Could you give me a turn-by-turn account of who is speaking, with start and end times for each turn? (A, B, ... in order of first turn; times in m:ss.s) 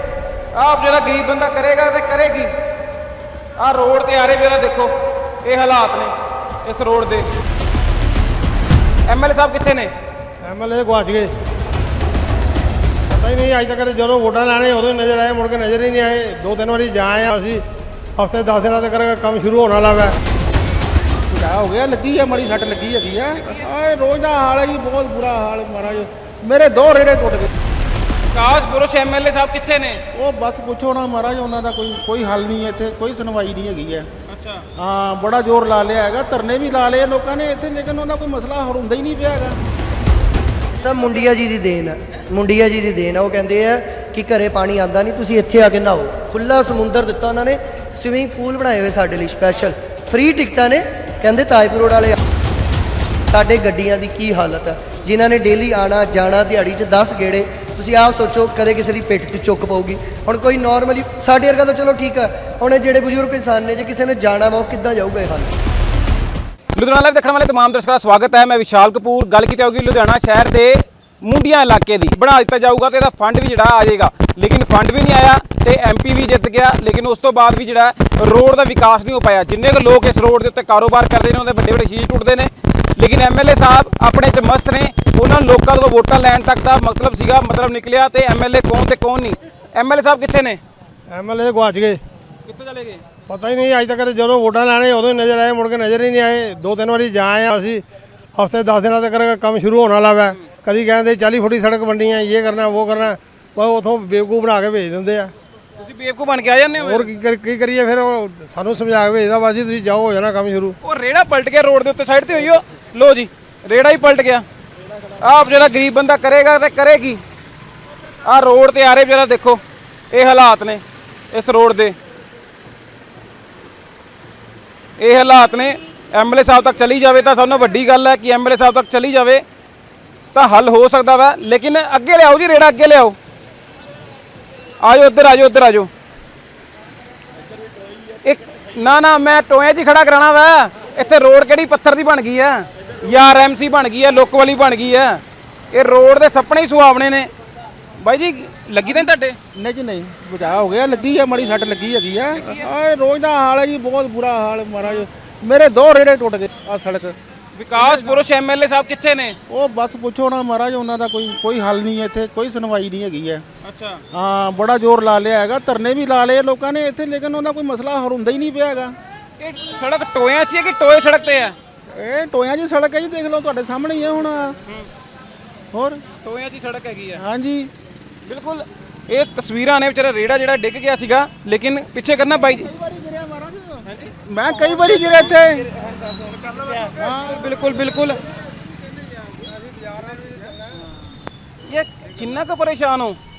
0:00.6-0:02.5 A
0:03.6-0:04.9 A
0:05.4-0:06.1 A
0:06.6-0:07.3 A
0:09.1-0:09.9 A
0:10.4-0:11.3 B
0:13.1-0:17.6 B
0:18.2-0:20.2 B
0:21.3-0:27.5 C
0:28.3-0:30.0 A
0:30.1-0:34.1 C
0:34.3-0:34.6 A
0:34.8-0:39.6 C
0:40.8-0:52.2 D
0:53.3-1:05.5 D
1:06.8-1:30.6 A
1:31.1-1:32.0 B
1:32.5-1:33.0 A
1:33.3-1:37.8 B
1:38.4-1:45.3 B
1:45.8-1:47.1 A
1:46.8-1:50.8 B
1:50.8-1:54.4 A
1:55.2-1:57.2 A
1:58.3-1:59.6 A
2:00.1-2:02.0 A
2:05.0-2:09.4 A
2:10.3-2:13.2 A
2:14.8-2:15.9 A
2:18.2-2:25.2 A
2:25.7-2:27.3 A
2:28.0-2:29.4 A
2:28.9-2:37.2 C
2:32.4-2:32.7 A
2:37.6-2:39.4 A
2:37.8-2:38.2 C
2:39.5-2:43.4 C
2:43.6-2:44.0 A
2:44.1-2:48.9 C
2:49.4-2:51.6 A
2:51.9-2:54.6 C
2:55.7-2:56.0 C
2:56.2-2:57.2 A
2:57.2-2:57.7 C
2:58.3-3:02.7 A
3:02.4-3:05.7 C
3:03.9-3:04.1 A
3:06.9-3:07.4 C
3:07.2-3:08.2 A
3:11.7-3:13.2 A